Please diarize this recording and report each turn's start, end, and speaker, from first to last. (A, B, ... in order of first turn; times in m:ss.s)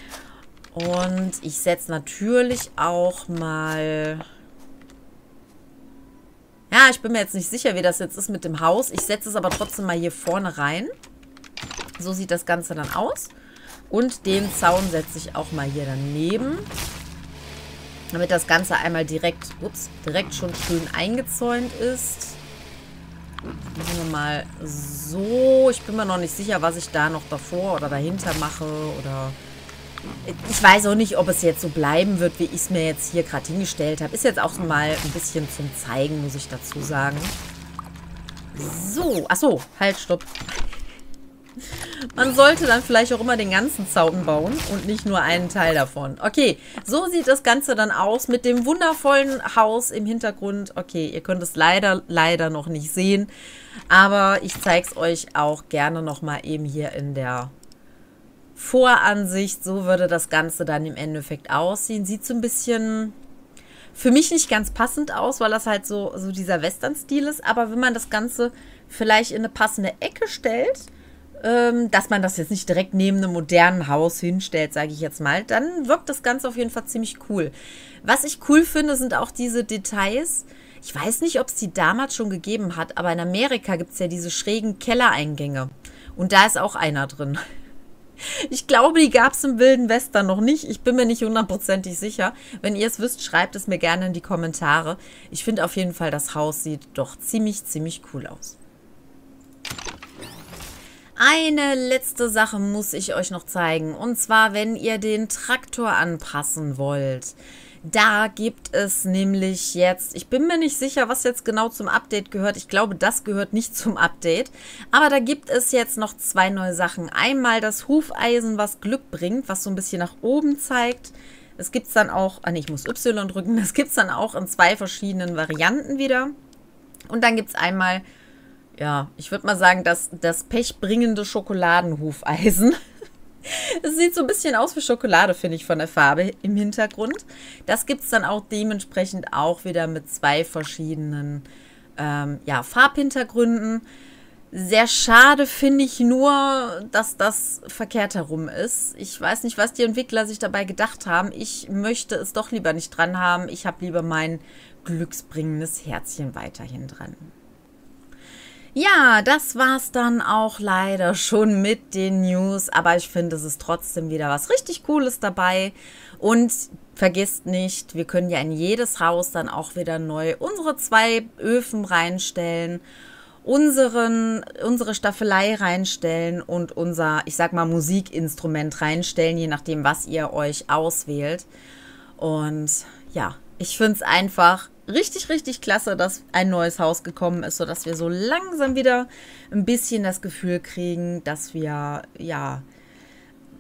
0:00.7-0:04.2 A
0:06.7-0:10.9 A
0:12.0-0:13.3 A
0:13.9-0:16.7 A
0:18.1-0:22.4 A
0:23.7-0:29.4 A
0:30.2-0:37.4 A
0:38.5-0:40.3 A
0:41.7-0:53.3 A
0:53.9-0:57.5 A
0:58.6-1:03.2 A
1:03.9-1:10.9 A
1:11.4-1:27.4 A
1:28.2-1:38.6 A
1:41.2-2:06.3 A
2:07.1-2:08.0 A
2:08.8-2:12.8 A
2:13.4-2:21.5 A
2:22.0-2:23.8 A
2:24.5-2:37.3 A
2:38.8-2:52.8 A
2:53.4-3:01.5 A
3:02.2-3:12.6 A